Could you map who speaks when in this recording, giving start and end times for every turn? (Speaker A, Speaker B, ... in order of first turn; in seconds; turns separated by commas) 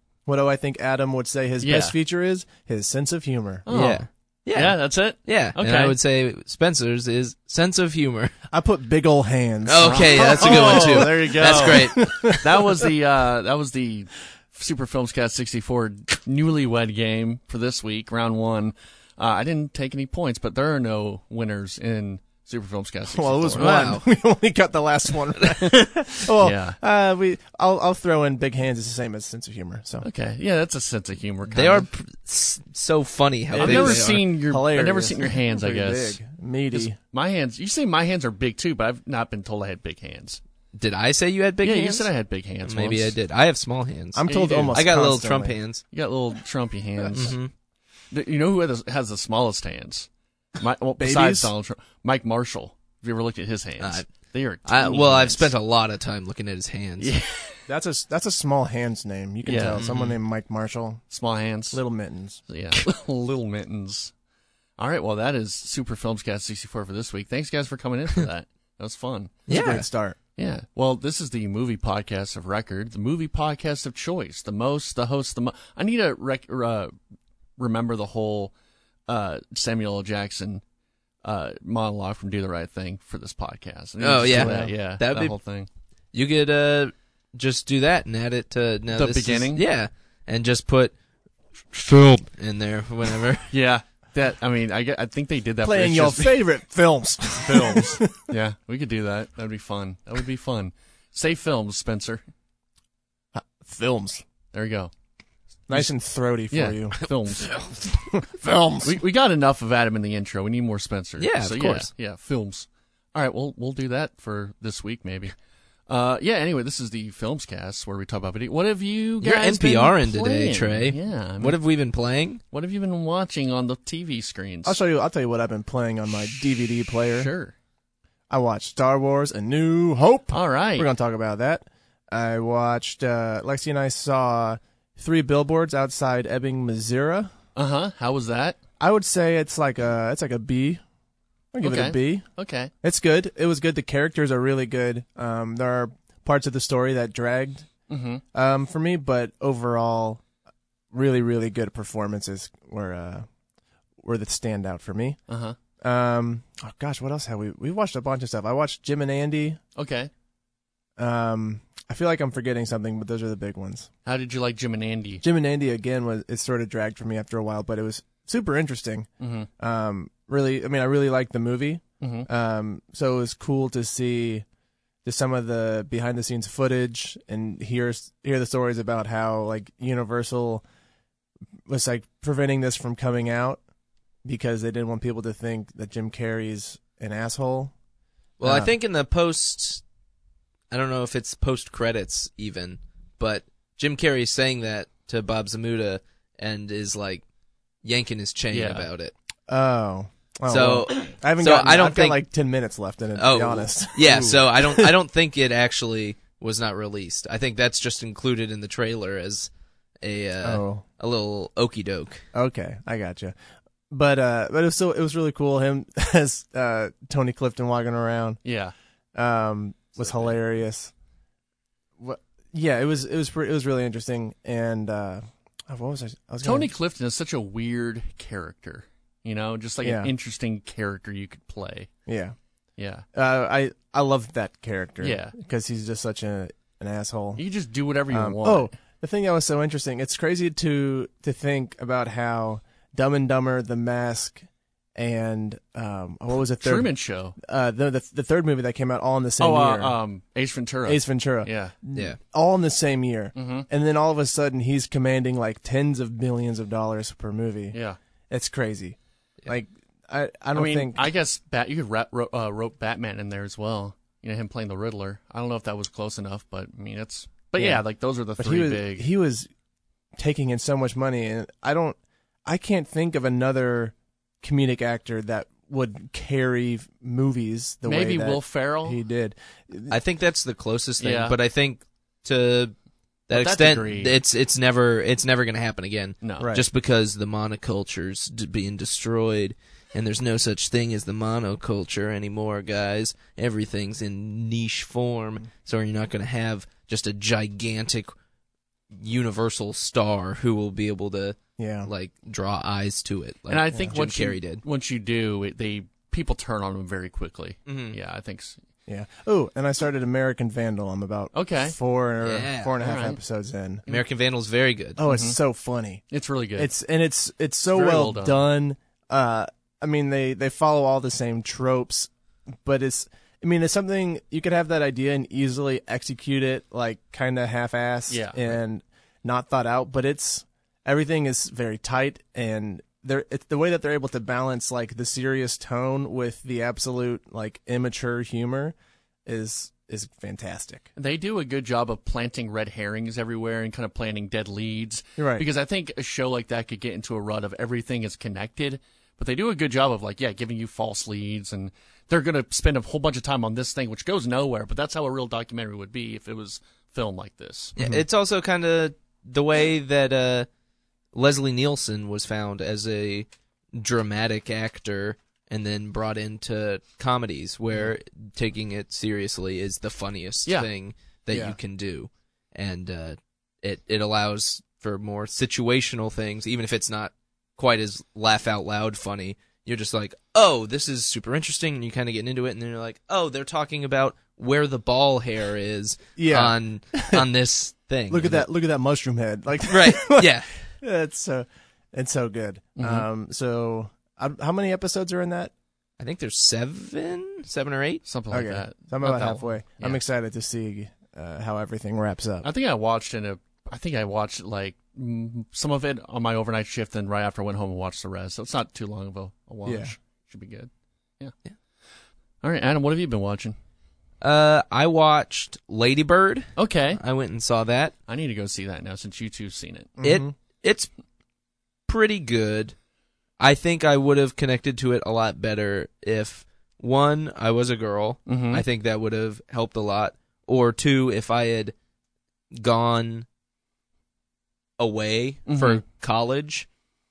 Speaker A: 0.2-3.7, Speaker B: 1.6-1.9, Speaker B: 3.6-5.9, Speaker C: 3.7-8.3, Speaker A: 8.5-12.6, Speaker C: 9.6-12.4, Speaker B: 9.8-23.7, Speaker A: 23.1-30.1, Speaker C: 23.6-24.1, Speaker B: 26.4-26.8, Speaker B: 30.0-31.9, Speaker C: 31.5-34.2, Speaker B: 33.5-36.2, Speaker A: 33.6-37.0, Speaker B: 36.7-40.4, Speaker C: 40.7-42.1, Speaker B: 41.6-43.1, Speaker C: 42.6-45.8, Speaker A: 44.1-45.6, Speaker B: 44.3-44.8, Speaker B: 45.9-47.4, Speaker C: 47.1-47.5, Speaker B: 48.1-55.5, Speaker A: 51.0-51.5, Speaker C: 53.8-54.1, Speaker C: 54.6-57.1, Speaker B: 57.0-57.6, Speaker A: 57.7-61.0, Speaker B: 59.4-59.9, Speaker C: 59.8-60.1, Speaker B: 61.1-61.8, Speaker A: 61.7-62.4, Speaker B: 62.5-64.1, Speaker B: 64.8-69.3, Speaker C: 69.5-69.9, Speaker A: 69.5-70.2, Speaker B: 70.4-76.9, Speaker B: 77.6-78.5, Speaker B: 79.1-80.6, Speaker B: 81.2-85.7, Speaker C: 84.0-85.3, Speaker A: 84.3-84.7, Speaker C: 86.1-90.9, Speaker B: 88.9-89.6, Speaker C: 91.7-93.5, Speaker B: 93.5-96.4, Speaker A: 95.6-98.3, Speaker B: 97.4-102.2, Speaker A: 103.3-104.2, Speaker B: 104.5-104.9, Speaker A: 105.7-107.0, Speaker B: 106.5-107.5, Speaker A: 108.1-109.0, Speaker B: 108.8-115.3, Speaker C: 111.2-111.9, Speaker B: 115.9-121.6, Speaker C: 119.2-122.4, Speaker B: 122.5-124.8, Speaker A: 124.6-127.3, Speaker B: 127.2-127.5, Speaker A: 128.3-137.3, Speaker B: 130.3-130.9, Speaker B: 137.6-138.6, Speaker A: 138.8-140.8, Speaker A: 141.5-142.2, Speaker B: 141.6-142.7, Speaker A: 142.8-147.7, Speaker B: 147.9-148.2, Speaker A: 148.3-150.2, Speaker A: 150.9-153.3, Speaker A: 154.0-155.2, Speaker B: 155.3-155.6, Speaker A: 155.8-159.6, Speaker B: 159.8-160.1, Speaker A: 161.0-163.9, Speaker B: 164.0-165.2, Speaker A: 165.2-169.1, Speaker B: 169.2-169.5, Speaker A: 169.6-174.4, Speaker B: 172.0-172.3, Speaker A: 175.0-180.6, Speaker A: 181.7-183.6, Speaker A: 184.2-187.7, Speaker C: 188.4-189.8, Speaker A: 188.4-188.7, Speaker C: 190.7-197.2, Speaker C: 197.8-199.1, Speaker B: 198.5-198.9, Speaker A: 199.5-204.9, Speaker C: 200.5-202.2, Speaker C: 203.2-209.5, Speaker C: 210.0-212.2, Speaker A: 210.4-210.8, Speaker A: 212.3-213.3, Speaker A: 213.9-218.4, Speaker B: 218.4-218.7, Speaker A: 219.1-220.9, Speaker A: 222.0-226.7, Speaker B: 226.4-231.9, Speaker A: 229.8-230.1, Speaker A: 232.1-232.3, Speaker B: 232.8-233.1, Speaker A: 233.1-237.4, Speaker B: 235.0-235.3, Speaker B: 237.3-238.7, Speaker A: 238.1-249.9, Speaker B: 246.6-247.3, Speaker B: 249.4-251.7, Speaker A: 250.8-257.8, Speaker B: 253.3-253.7, Speaker B: 257.7-258.0, Speaker A: 258.3-261.1, Speaker B: 260.5-269.1, Speaker A: 267.6-267.8, Speaker A: 268.4-269.5, Speaker A: 270.2-280.0, Speaker B: 277.8-279.0, Speaker C: 279.9-282.7, Speaker B: 281.0-281.4, Speaker C: 283.3-298.1, Speaker B: 283.3-284.1, Speaker B: 286.2-286.5, Speaker A: 286.4-286.6, Speaker C: 298.9-304.6, Speaker A: 301.6-301.9, Speaker B: 303.5-308.6, Speaker A: 303.7-304.0, Speaker C: 307.7-307.9, Speaker A: 308.9-313.8, Speaker B: 311.3-311.7, Speaker C: 312.2-312.7, Speaker B: 312.8-313.2, Speaker C: 313.9-315.0, Speaker A: 315.0-316.0, Speaker B: 315.1-315.4, Speaker B: 316.1-316.7, Speaker A: 316.6-322.1, Speaker B: 317.7-318.4, Speaker A: 322.6-338.7, Speaker B: 328.1-328.6, Speaker A: 339.2-340.9, Speaker B: 340.9-357.7, Speaker A: 345.2-345.4, Speaker A: 357.8-358.0, Speaker C: 357.8-360.5, Speaker C: 361.1-388.4, Speaker A: 371.3-371.6, Speaker A: 386.2-387.2, Speaker A: 388.1-395.5, Speaker C: 389.7-390.6, Speaker B: 392.8-393.1, Speaker C: 396.0-398.0, Speaker B: 398.0-400.0, Speaker A: 398.3-402.5, Speaker B: 402.4-411.3, Speaker A: 409.6-409.9, Speaker B: 412.4-413.6, Speaker C: 414.2-417.9, Speaker B: 416.6-417.0, Speaker B: 418.1-419.9, Speaker A: 420.0-420.3, Speaker C: 420.0-420.9, Speaker C: 421.9-422.7, Speaker C: 423.4-431.7, Speaker B: 428.3-428.6, Speaker C: 432.5-433.2, Speaker C: 434.8-436.7, Speaker B: 435.5-435.8